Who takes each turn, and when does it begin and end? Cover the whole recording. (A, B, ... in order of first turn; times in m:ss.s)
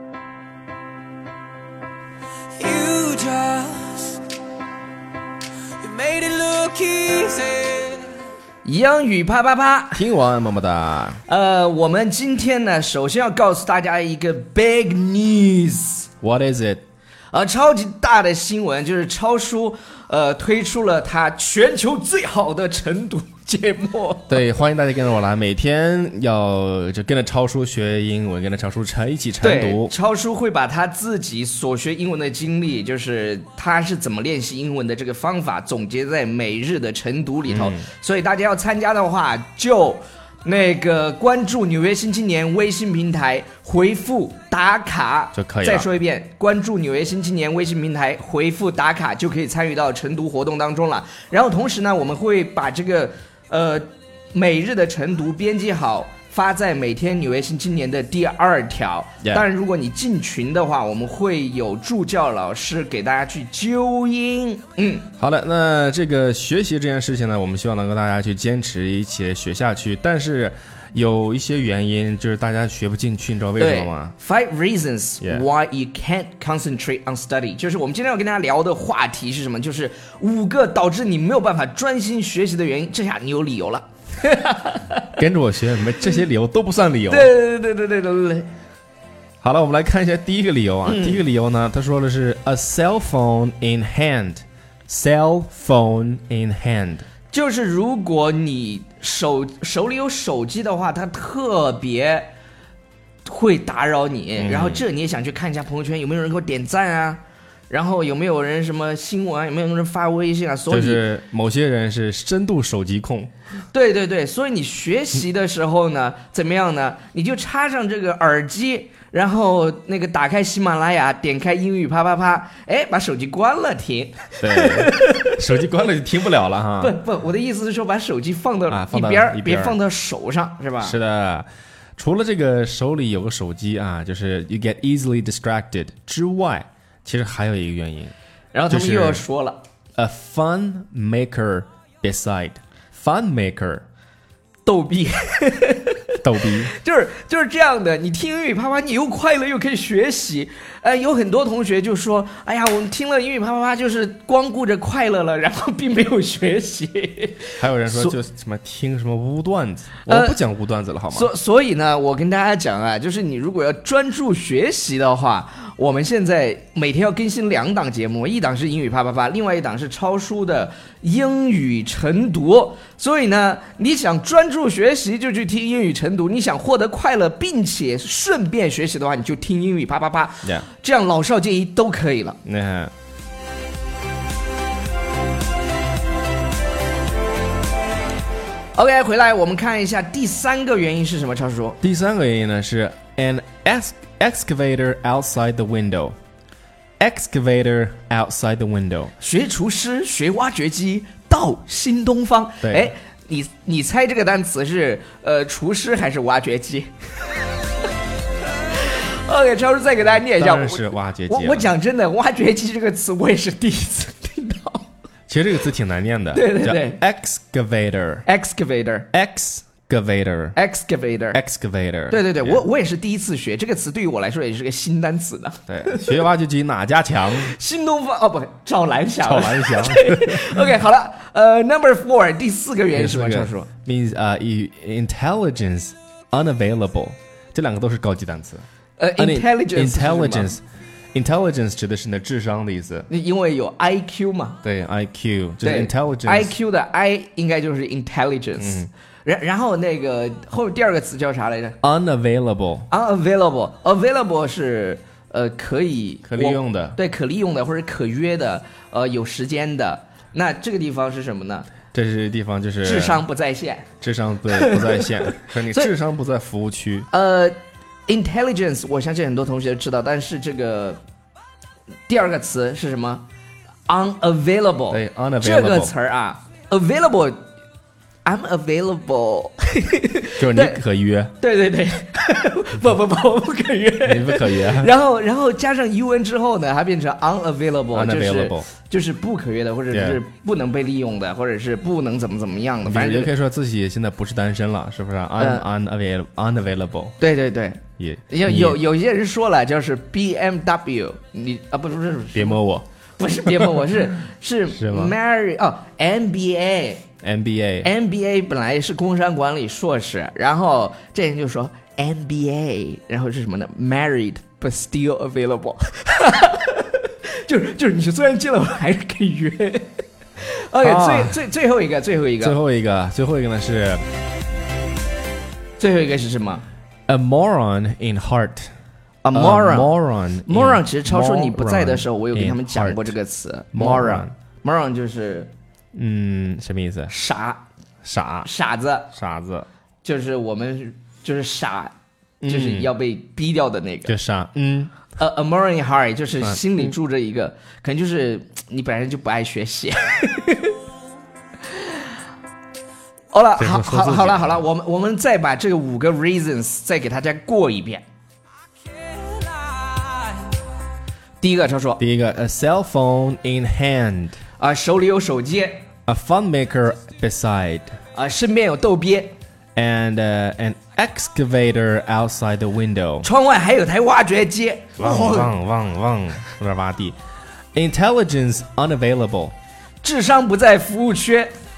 0:02.6-0:04.2 A
0:05.8-0:08.1 A
0:08.6-0:10.0 B
0:10.0-0:11.2 C
0:11.3-0:16.1 B
0:16.2-0:16.8 C
0:17.3-0:24.4 B
0:24.3-0:29.9 C
0:29.4-1:05.1 B
0:37.5-0:37.8 C
0:45.3-0:45.9 C
1:05.2-1:14.1 C
1:13.6-1:25.2 B
1:25.2-1:27.3 C
1:27.1-1:28.5 B
1:29.4-1:37.0 C
1:30.8-1:31.2 B
1:37.3-1:42.3 B
1:43.2-1:47.2 B
1:44.4-1:44.8 C
1:47.7-1:51.0 B
1:50.7-1:53.3 C
1:53.7-2:05.4 B
2:04.4-2:06.9 C
2:06.8-2:11.0 B
2:08.7-2:09.8 C
2:10.8-2:18.1 C
2:18.5-2:19.6 B
2:18.7-2:19.2 C
2:20.0-2:23.8 C
2:24.6-2:38.1 B
2:26.2-2:26.7 C
2:37.6-2:41.3 C
2:40.1-2:40.4 B
2:41.1-3:02.4 B
3:02.4-3:02.9 C
3:08.7-3:11.8 B
3:11.8-3:16.2 C
3:17.0-3:19.1 C
3:19.2-3:26.9 B
3:22.6-3:22.9 C
3:28.7-3:34.8 B
3:30.1-3:31.7 C
3:35.3-3:38.3 C
3:36.3-3:37.0 B
3:38.2-3:39.1 B
3:39.1-3:40.6 C
3:40.6-3:41.4 B
3:41.3-3:42.6 C
3:42.1-3:46.1 B
3:45.7-3:47.5 C
3:47.4-3:53.7 B
3:49.2-3:50.7 C
3:52.9-3:58.6 C
3:59.0-4:00.5 B
3:59.2-4:00.6 C
4:01.1-4:03.1 C
4:03.1-4:04.6 B
4:04.6-4:06.5 C
4:05.6-4:11.8 B
4:08.6-4:08.9 C
4:11.8-4:12.9 C
4:12.9-4:21.7 B
4:16.2-4:17.0 C
4:21.9-4:23.2 C
4:22.8-4:23.9 B
4:24.0-4:27.1 C
4:24.5-4:25.9 B
4:27.1-4:31.0 B
4:32.1-4:33.2 B
4:33.9-4:37.4 B
4:34.9-4:35.9 C
4:38.2-4:40.8 B
4:40.4-4:41.3 C
4:41.4-4:53.3 B
4:44.0-4:44.9 C
4:47.9-4:48.7 C
4:49.9-4:50.2 C
4:52.8-4:57.1 C
4:57.2-5:02.6 B
4:58.0-4:58.8 C
5:02.3-5:02.8 C
5:03.2-5:07.0 B
5:04.7-5:05.1 C
5:07.2-5:07.9 C
5:07.8-5:22.6 B
5:20.8-5:21.4 C
5:22.4-5:24.0 C
5:25.8-5:26.6 B
5:27.1-5:28.7 C
5:29.2-5:35.5 B
5:29.3-5:33.1 C
5:33.7-5:34.3 C
5:35.9-5:37.1 C
5:37.1-5:37.6 B
5:38.0-5:38.5 C
5:38.4-5:39.1 B
5:39.1-5:39.7 C
5:40.0-5:41.9 B
5:42.4-5:42.9 C
5:42.5-5:44.1 B
5:44.1-5:44.9 C
5:45.2-5:50.7 B
5:46.4-5:46.9 C
5:53.3-5:58.0 B
5:53.6-5:54.5 C
5:59.3-6:00.3 A
6:01.4-6:02.0 B
6:02.0-6:04.4 C
6:04.6-6:05.8 B
6:06.0-6:08.0 C
6:08.1-6:09.3 B
6:09.8-6:13.3 C
6:13.2-6:15.5 B
6:15.0-6:17.2 C
6:17.7-6:19.5 C
6:20.0-6:21.5 B